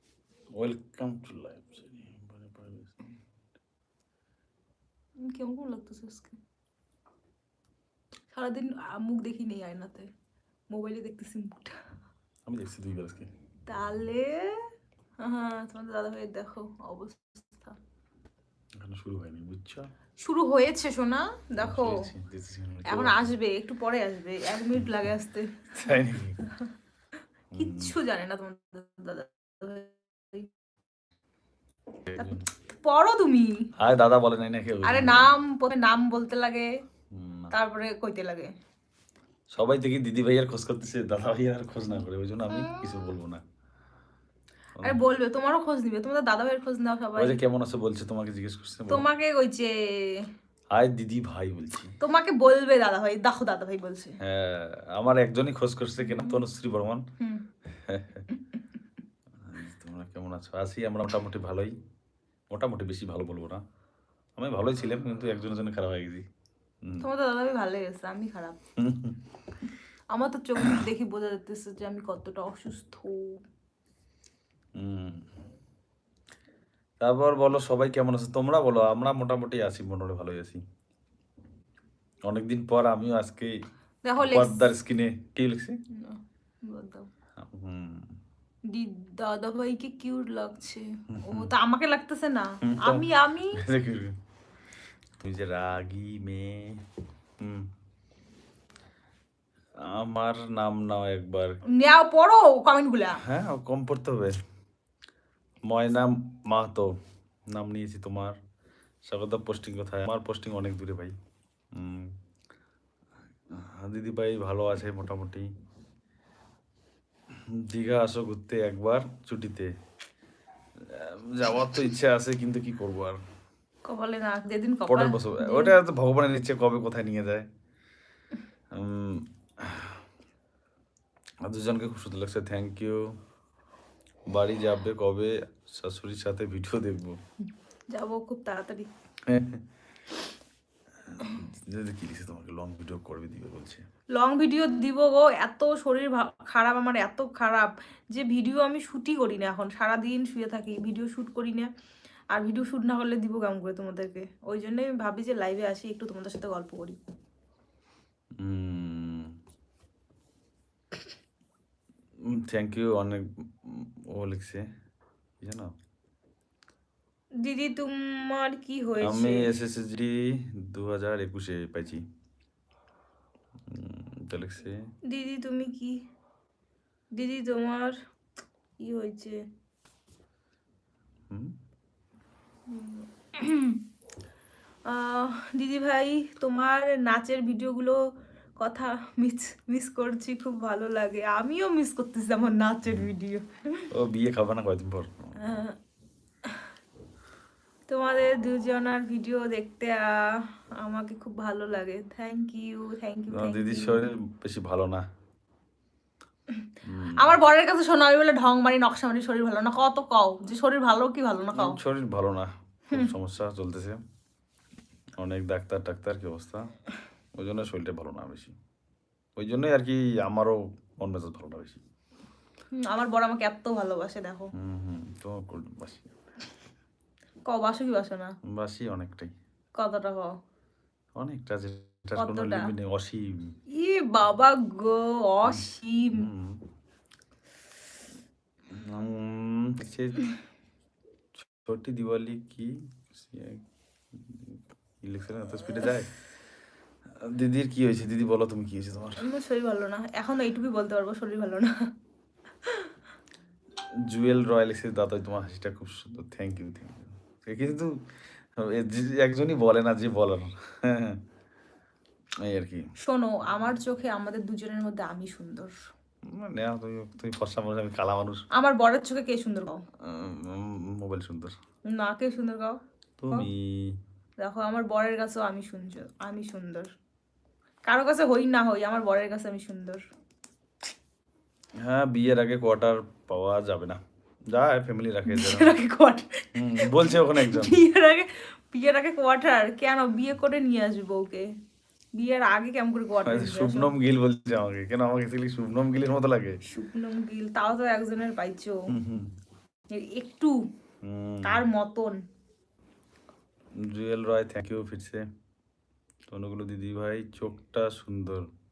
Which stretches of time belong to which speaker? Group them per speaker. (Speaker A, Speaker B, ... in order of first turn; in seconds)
Speaker A: 0.5-3.2, 12.4-13.3, 18.8-19.9, 21.6-23.3, 24.7-25.1, 25.7-26.4, 27.5-28.0, 32.0-32.4, 33.8-35.3, 37.1-37.5, 39.5-43.4, 47.2-49.1, 50.7-51.9, 54.2-57.0, 57.9-58.3, 59.4-61.7, 62.5-63.6, 64.4-66.2, 66.8-67.1, 68.8-69.2, 74.8-75.3, 77.0-80.6, 82.2-83.5, 84.2-85.8, 87.4-88.2, 91.1-91.5, 92.7-94.2, 95.2-96.8, 97.4-97.7, 99.8-101.6, 103.2-104.4, 105.6-106.9, 107.5-108.4, 109.0-111.2, 111.7-112.2, 113.5-115.5, 117.3-119.7, 120.8-123.2, 124.8-127.5, 128.7-130.0, 131.4-133.2, 134.3-137.2, 139.2-139.6, 141.0-143.8, 158.4-159.3, 162.2-164.6, 165.4-165.7, 169.0-172.0, 173.7-174.8, 181.3-181.6, 192.8-193.1, 193.9-195.4, 203.3-205.0, 206.8-207.4, 211.5-214.0, 215.2-216.7, 217.3-218.5, 219.4-221.8, 224.6-226.2, 228.5-229.3, 231.1-233.5, 235.4-236.6, 238.7-240.2, 241.4-243.6, 244.1-246.1, 247.1-249.2, 254.0-257.9, 258.5-261.2, 262.4-262.9, 266.3-268.4, 270.0-271.5, 273.2-274.0, 281.8-284.0, 284.5-285.7, 286.5-287.8, 293.2-296.6, 298.9-299.3, 301.0-301.6, 303.8-305.2, 306.3-308.4
Speaker B: 5.2-6.4, 8.3-10.1, 10.7-11.8, 13.7-14.5, 15.2-17.8, 20.2-22.0, 22.9-26.7, 27.6-30.5, 32.1-33.7, 34.8-36.7, 37.5-38.5, 42.5-42.9, 44.8-47.4, 48.9-50.2, 52.0-54.2, 56.0-56.4, 67.0-68.6, 70.1-73.3, 84.0-84.6, 85.9-87.1, 88.7-93.6, 101.7-103.2, 123.8-125.8, 137.9-138.9, 144.1-151.7, 152.3-157.0, 167.4-169.5, 175.1-176.0, 177.1-177.9, 178.8-179.4, 182.7-183.8, 184.8-187.9, 188.6-193.8, 195.4-195.8, 197.9-204.0, 207.2-211.8, 222.7-224.5, 227.4-228.3, 229.8-230.3, 232.2-232.7, 233.7-236.3, 249.2-251.7, 252.6-252.9, 263.0-265.8, 268.5-269.8, 271.9-272.8, 274.4-276.9, 277.9-280.0, 285.3-291.5, 292.1-293.9, 296.6-298.9, 299.9-300.5, 301.4-302.2